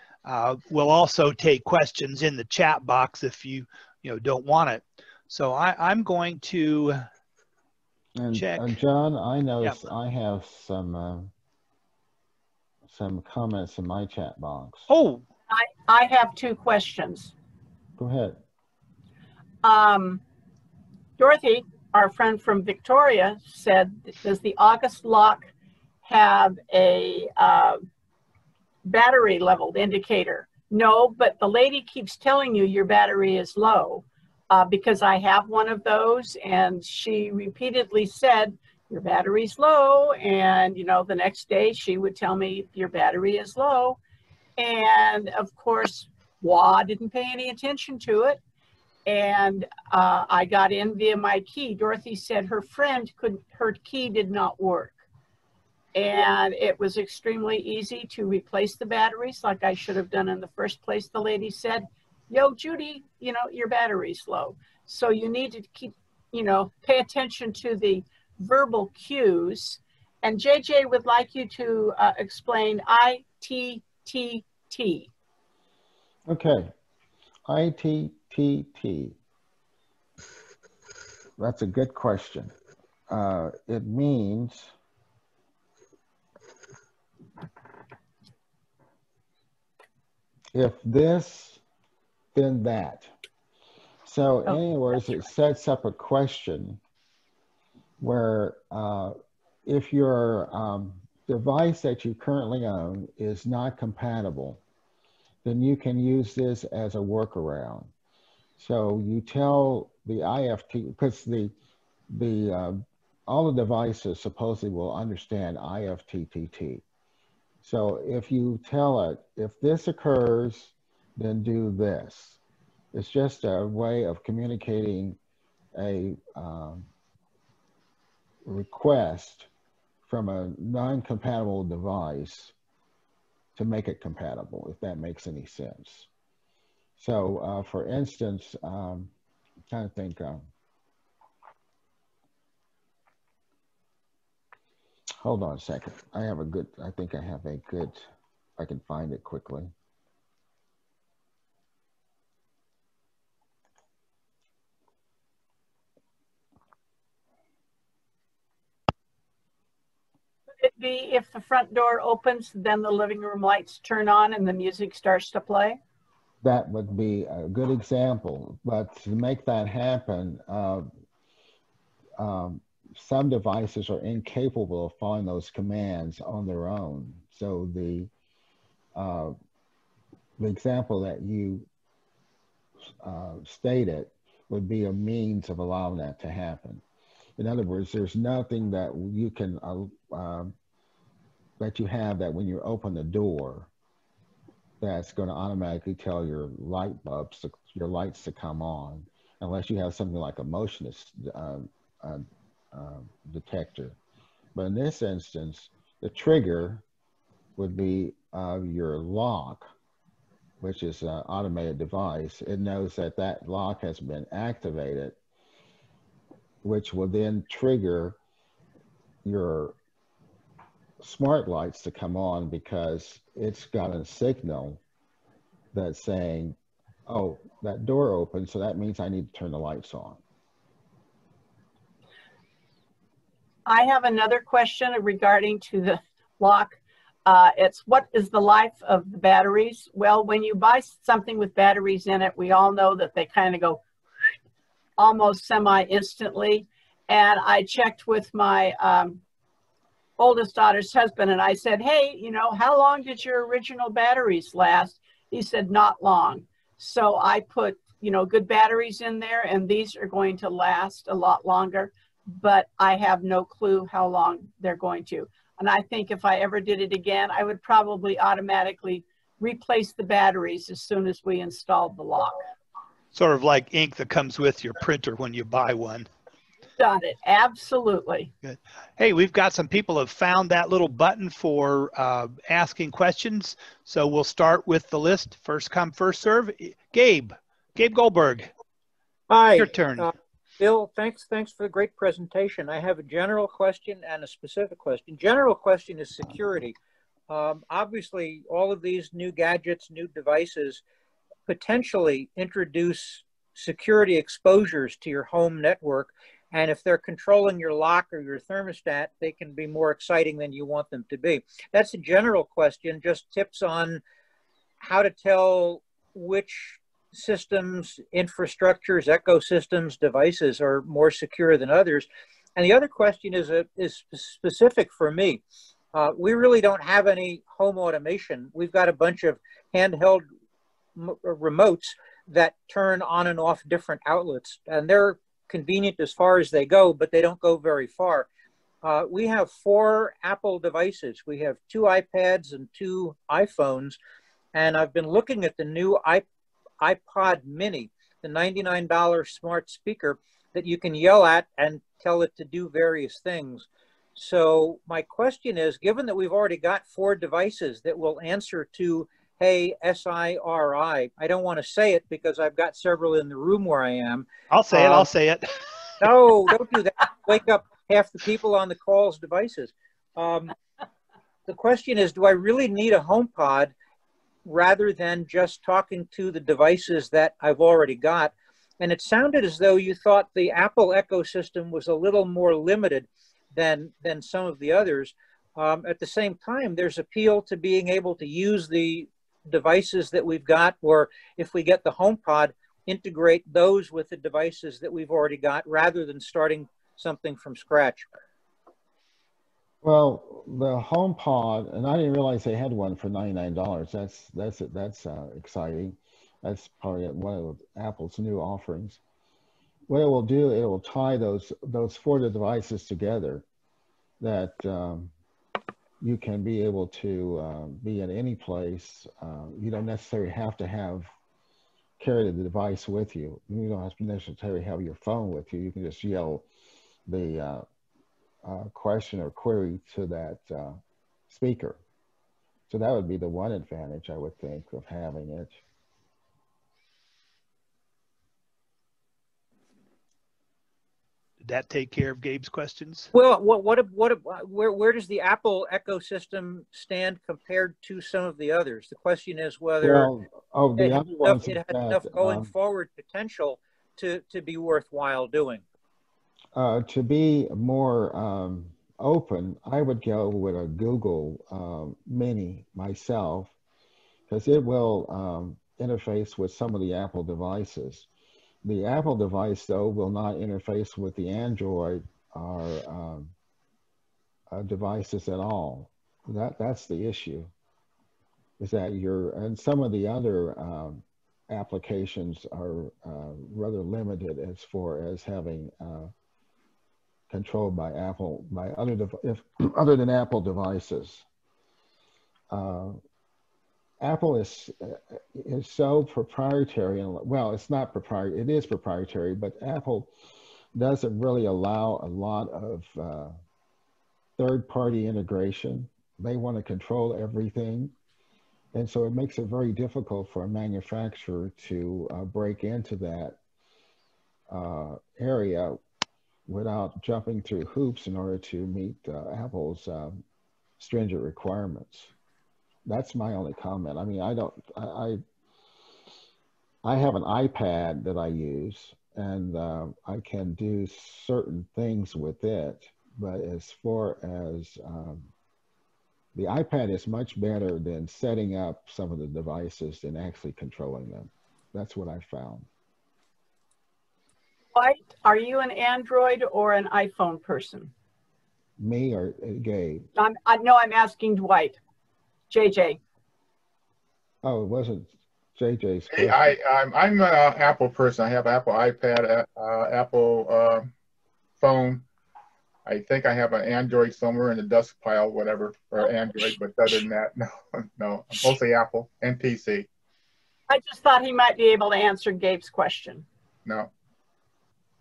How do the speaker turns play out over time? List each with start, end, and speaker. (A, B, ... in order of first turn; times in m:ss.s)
0:00.2-0:07.0 A
0:08.2-0:11.3 B
0:08.3-0:08.7 A
0:12.9-0:14.9 B
0:14.9-0:15.2 A
0:15.5-0:17.3 C
0:18.0-0:18.4 B
0:19.6-0:20.2 C
0:21.2-0:25.5 C
0:26.0-0:27.8 C
0:28.8-0:44.0 C
0:44.6-0:48.4 C
0:49.0-0:55.0 C
0:55.9-1:15.1 C
1:16.3-1:16.7 B
1:17.4-1:19.2 B
1:21.4-1:22.5 B
1:23.1-1:24.7 B
1:30.5-1:31.6 B
1:32.3-1:33.1 B
1:34.0-1:36.8 B
1:38.0-1:44.6 B
1:45.4-1:47.9 B
1:48.6-1:51.5 B
1:52.1-1:56.8 B
1:57.6-2:02.4 B
2:02.9-2:05.2 B
2:05.7-2:06.9 B
2:08.4-2:09.5 B
2:10.0-2:12.5 B
2:13.5-2:16.1 B
2:17.0-2:19.1 B
2:19.7-2:20.5 B
2:25.2-2:29.7 B
2:40.6-2:45.8 C
2:46.4-2:50.9 B
2:52.2-2:58.1 B
2:58.9-2:59.3 B
3:00.4-3:01.7 B
3:03.0-3:06.8 B
3:07.4-3:10.5 B
3:11.6-3:13.7 B
3:14.8-3:24.0 B
3:24.5-3:26.8 B
3:27.6-3:29.7 B
3:30.6-3:35.2 B
3:36.6-3:38.2 B
3:39.2-3:39.8 B
3:41.0-3:44.8 B
3:45.7-3:46.6 B
3:47.1-3:50.2 B
3:53.6-4:03.8 C
4:05.0-4:09.2 C
4:10.2-4:32.4 C
4:33.1-4:36.1 A
4:36.8-4:38.3 C
4:38.4-4:48.5 A
4:49.3-4:56.8 D
4:49.6-4:50.1 A
4:57.3-5:00.8 D
5:01.5-5:14.0 D
5:14.8-5:30.2 D
5:31.0-5:38.3 D
5:38.8-5:44.0 D
5:44.5-5:46.2 D
5:46.8-6:05.1 D
6:04.5-6:05.5 A
6:06.0-6:10.5 D
6:11.5-6:13.7 D
6:14.4-6:38.1 D
6:39.8-6:49.0 B
6:49.9-6:53.4 B
6:54.2-6:55.1 B
6:56.0-7:01.1 B
7:02.0-7:06.4 B
7:07.1-7:07.6 B
7:08.4-7:11.8 B
7:12.7-7:15.6 B
7:21.4-7:23.1 A
7:23.1-7:30.1 D
7:29.8-7:32.5 B
7:30.8-7:35.6 D
7:36.6-7:43.5 B
7:44.3-7:48.1 B
7:48.6-7:53.3 B
7:54.5-7:57.5 B
7:58.6-8:06.1 B
8:07.3-8:11.2 B
8:12.5-8:13.0 B
8:14.0-8:20.1 B
8:20.7-8:23.4 B
8:24.4-8:27.9 B
8:28.7-8:33.4 B
8:34.5-8:35.8 B
8:36.5-8:40.2 B
8:40.8-8:42.1 B
8:42.8-8:45.2 B
8:46.8-8:55.3 B
8:56.3-9:02.7 B
9:04.7-9:07.9 C
9:08.8-9:10.1 B
9:10.2-9:11.8 C
9:12.5-9:13.0 C
9:14.4-9:16.5 B
9:16.1-9:20.9 E
9:21.6-9:22.0 E
9:22.8-9:29.9 E
9:30.7-9:33.2 C
9:33.6-9:33.9 E